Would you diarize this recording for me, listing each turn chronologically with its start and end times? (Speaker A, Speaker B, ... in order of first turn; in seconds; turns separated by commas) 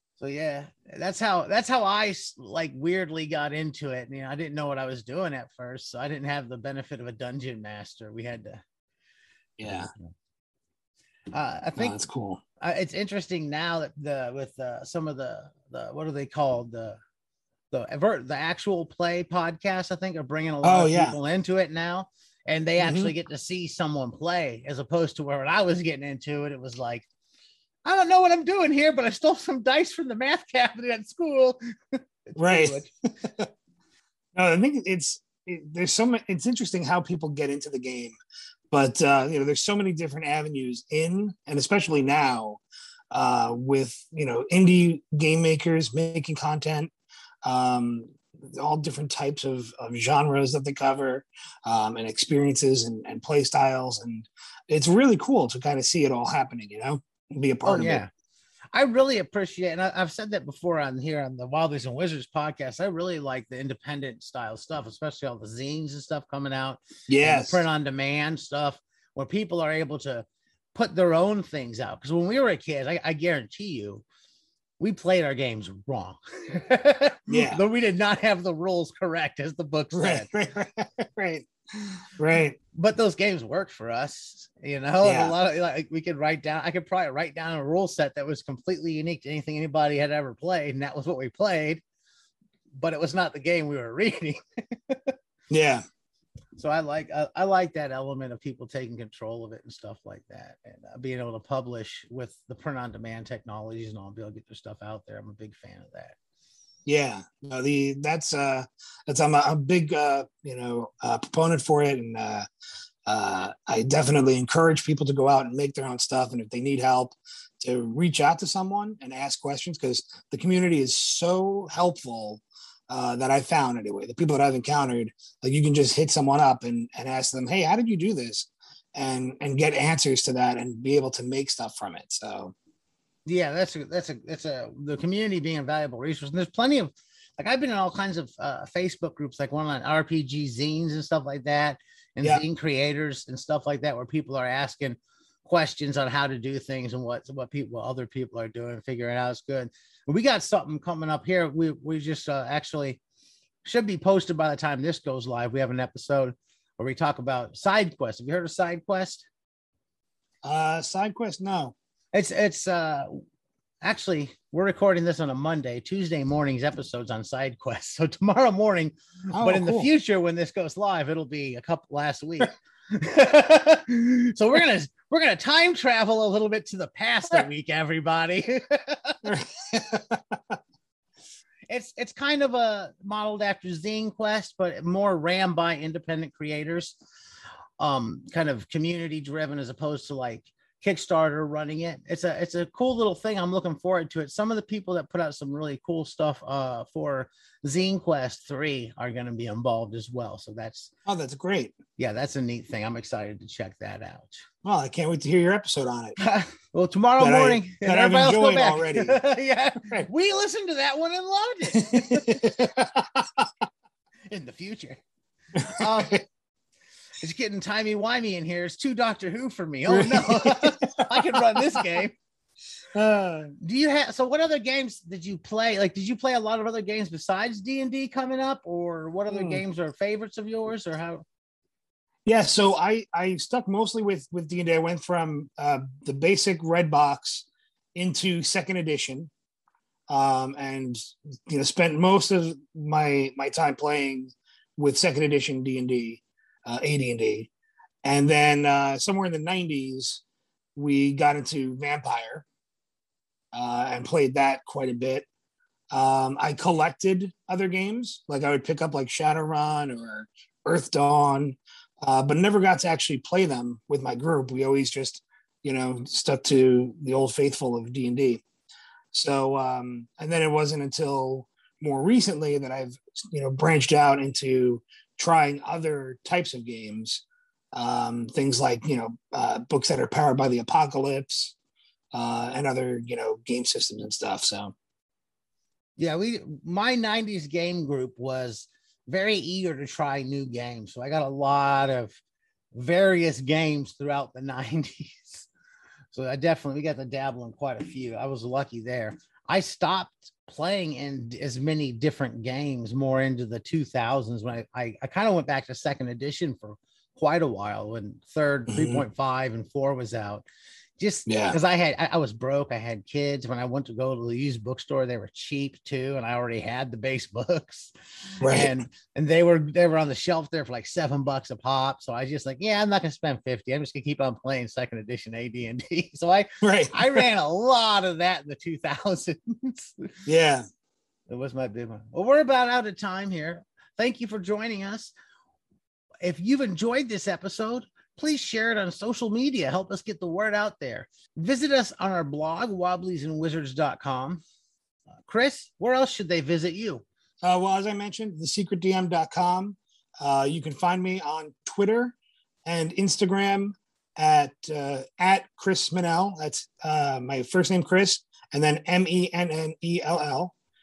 Speaker A: 0.2-8.6, Speaker B: 9.6-9.9, Speaker A: 9.6-10.0, Speaker A: 11.3-12.0, Speaker B: 11.8-12.4, Speaker A: 12.6-17.0, Speaker A: 17.7-27.1, Speaker B: 20.6-21.2, Speaker B: 22.8-23.1, Speaker A: 27.8-32.9, Speaker B: 32.4-33.5, Speaker B: 34.3-38.2, Speaker B: 38.7-46.9, Speaker B: 47.4-58.0, Speaker A: 57.6-58.1, Speaker A: 58.7-74.0, Speaker B: 67.1-67.6, Speaker A: 74.8-80.3, Speaker B: 77.3-77.6, Speaker B: 79.9-81.5, Speaker B: 82.2-82.6, Speaker A: 82.7-91.8, Speaker B: 85.0-85.3, Speaker A: 92.7-95.1, Speaker B: 95.5-95.8, Speaker A: 96.6-106.2, Speaker B: 106.8-112.5, Speaker B: 113.0-132.5, Speaker A: 133.2-153.0, Speaker A: 153.6-159.3, Speaker B: 160.4-161.7, Speaker A: 162.1-163.2, Speaker A: 163.8-179.2, Speaker B: 169.3-169.9, Speaker B: 179.2-180.5, Speaker A: 181.7-187.0, Speaker A: 187.8-200.9, Speaker B: 201.1-201.7, Speaker A: 202.0-204.4, Speaker B: 204.6-206.2, Speaker A: 206.2-212.4, Speaker B: 207.2-209.2, Speaker B: 209.8-210.1, Speaker B: 211.8-213.4, Speaker A: 214.3-215.0, Speaker B: 215.5-216.2, Speaker A: 215.7-216.2, Speaker A: 217.2-222.2, Speaker B: 219.9-221.8, Speaker B: 222.9-223.5, Speaker A: 223.6-231.2, Speaker B: 229.3-229.6, Speaker B: 232.2-239.3, Speaker B: 240.1-247.5, Speaker B: 248.0-250.2, Speaker B: 250.8-252.4, Speaker B: 253.5-255.2, Speaker B: 255.9-268.4, Speaker B: 269.1-281.6, Speaker B: 282.1-284.7, Speaker A: 286.0-292.2, Speaker A: 292.7-295.5, Speaker A: 296.1-310.4, Speaker B: 308.7-309.0, Speaker A: 311.0-317.9, Speaker B: 311.3-311.6, Speaker B: 318.4-318.8, Speaker A: 318.5-330.1, Speaker B: 326.6-327.2, Speaker B: 330.2-330.6, Speaker A: 331.3-335.1, Speaker A: 336.2-344.4, Speaker A: 345.3-347.0, Speaker B: 347.4-360.5